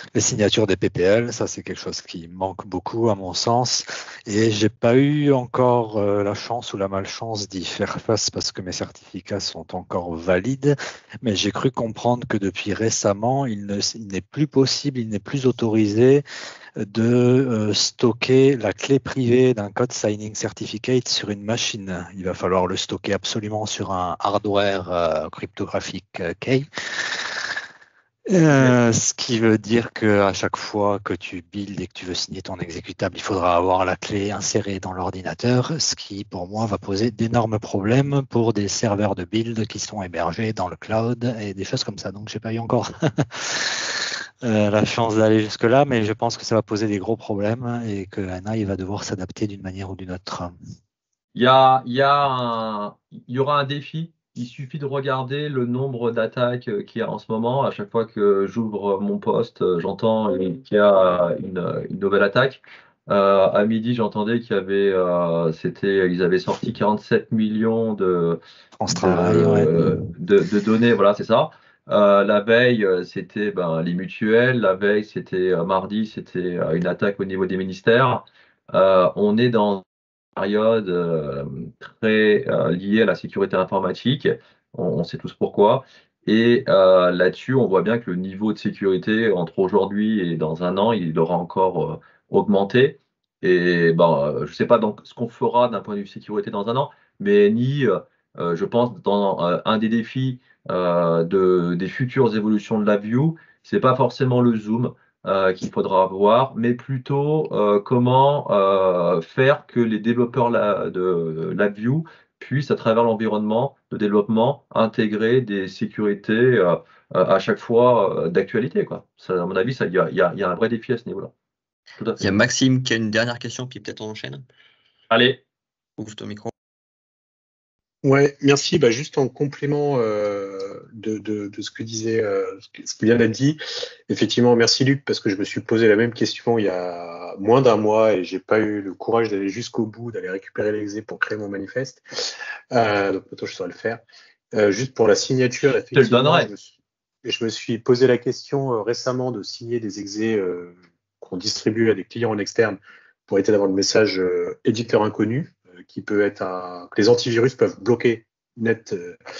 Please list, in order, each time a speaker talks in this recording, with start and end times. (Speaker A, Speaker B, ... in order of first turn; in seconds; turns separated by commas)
Speaker A: 0.1-16.2, Speaker A: 16.8-27.2, Speaker A: 28.3-50.5, Speaker B: 51.4-121.3, Speaker A: 68.8-70.0, Speaker B: 122.0-122.3, Speaker C: 122.2-124.5, Speaker B: 125.1-125.4, Speaker C: 126.0-126.5, Speaker D: 128.0-142.1, Speaker D: 142.7-144.0, Speaker D: 144.5-159.2, Speaker B: 145.9-146.5